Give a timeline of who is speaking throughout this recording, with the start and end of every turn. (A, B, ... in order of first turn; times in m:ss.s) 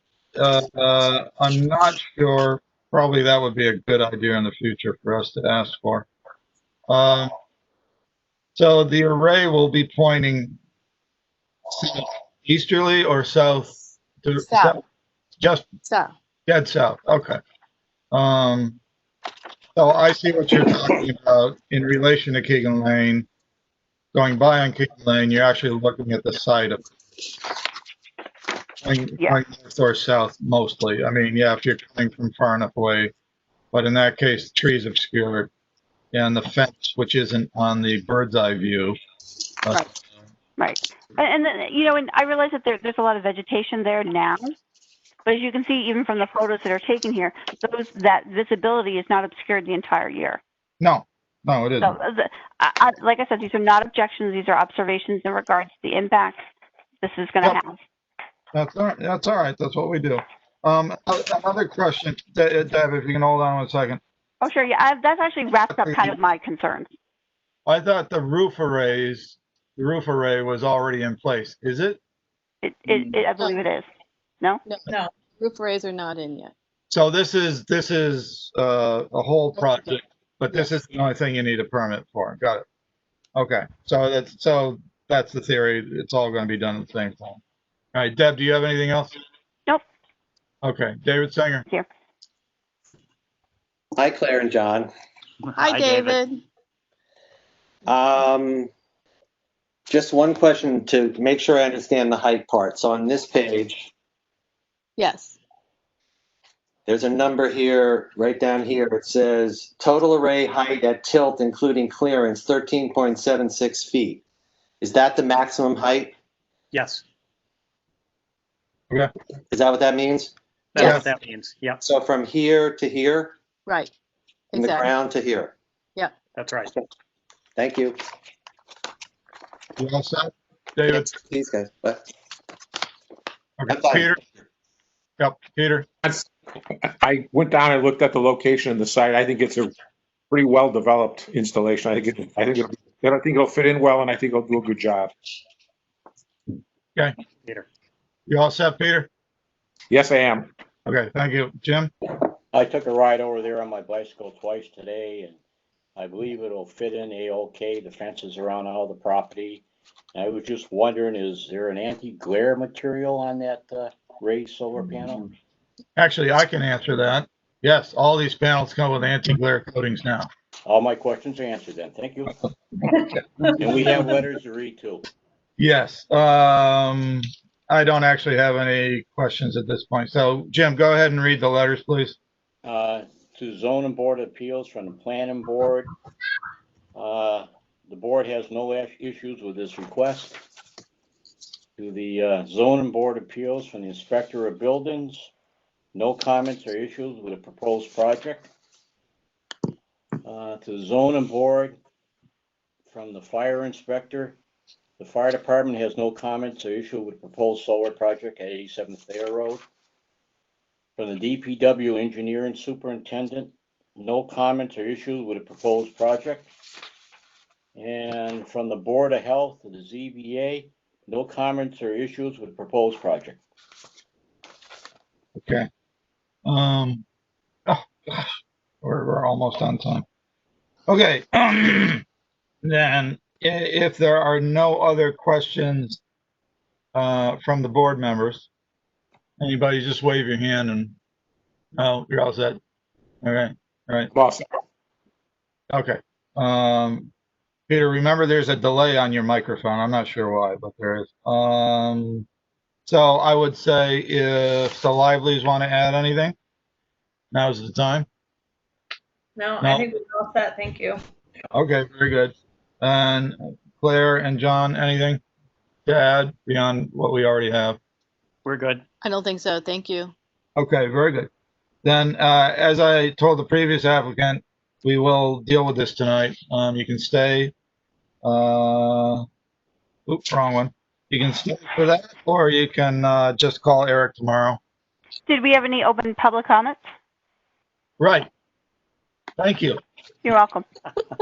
0:00.4-0:06.1 A
0:06.9-0:07.3 A
0:08.5-0:10.6 A
0:11.7-0:14.8 A
0:14.4-0:14.8 B
0:15.4-0:15.7 A
0:15.9-0:16.1 B
0:16.5-0:17.4 A
0:18.1-0:18.8 A
0:19.8-0:23.2 A
0:24.1-0:26.8 A
0:28.8-0:33.1 A
0:33.7-0:35.5 A
0:36.1-0:39.0 A
0:40.6-0:44.5 C
0:45.2-0:50.4 C
0:50.8-0:52.0 A
0:51.8-0:56.4 C
0:57.0-0:57.8 C
0:58.5-1:04.0 A
1:04.4-1:06.9 C
1:05.7-1:06.2 A
1:07.7-1:12.0 A
1:12.6-1:13.9 C
1:12.9-1:13.2 D
1:14.7-1:16.5 B
1:16.9-1:22.6 A
1:23.4-1:27.4 A
1:27.9-1:29.1 A
1:30.6-1:31.6 A
1:34.0-1:34.9 E
1:35.4-1:36.2 F
1:35.6-1:36.4 B
1:37.9-1:38.7 E
1:39.9-1:43.9 E
1:45.0-1:45.4 B
1:46.9-1:54.2 E
1:54.8-1:56.1 E
1:56.7-1:57.0 F
1:59.5-2:00.3 E
2:00.8-2:01.8 F
2:00.8-2:01.0 B
2:00.8-2:01.1 A
2:01.8-2:03.3 E
2:04.5-2:04.9 B
2:04.6-2:05.6 E
2:06.3-2:06.7 F
2:07.6-2:08.0 E
2:09.8-2:11.1 A
2:10.9-2:12.1 E
2:13.6-2:14.2 A
2:13.7-2:14.2 E
2:15.2-2:15.9 A
2:17.0-2:19.7 G
2:20.3-2:25.1 G
2:28.3-2:29.1 A
2:29.9-2:30.5 G
2:30.9-2:31.9 A
2:32.5-2:35.4 H
2:36.0-2:39.6 H
2:40.2-2:45.3 H
2:46.0-2:50.3 A
2:50.6-2:52.4 H
2:53.6-2:55.1 H
2:55.6-3:02.2 A
3:02.6-3:05.9 H
3:07.0-3:10.4 H
3:11.8-3:15.3 H
3:15.9-3:18.5 H
3:20.2-3:21.8 H
3:22.9-3:24.4 H
3:25.0-3:29.6 H
3:31.0-3:36.5 H
3:37.8-3:43.4 H
3:45.4-3:45.7 A
3:46.5-3:47.0 A
3:47.7-3:50.0 A
3:50.9-3:52.0 A
3:52.6-3:56.0 A
3:56.9-3:58.5 A
3:59.4-4:01.0 A
4:01.8-4:02.6 A
4:03.2-4:04.1 A
4:05.7-4:07.1 A
4:07.7-4:12.3 A
4:12.9-4:16.4 A
4:17.3-4:18.1 A
4:19.4-4:21.0 D
4:19.6-4:19.9 A
4:21.5-4:25.2 A
4:25.9-4:27.8 A
4:28.4-4:28.8 F
4:29.0-4:30.1 B
4:30.6-4:31.3 A
4:31.8-4:37.5 A
4:38.2-4:39.2 A
4:40.1-4:44.6 A
4:45.2-4:46.8 C
4:48.0-4:48.3 A
4:49.4-4:49.8 A
4:50.2-4:50.7 C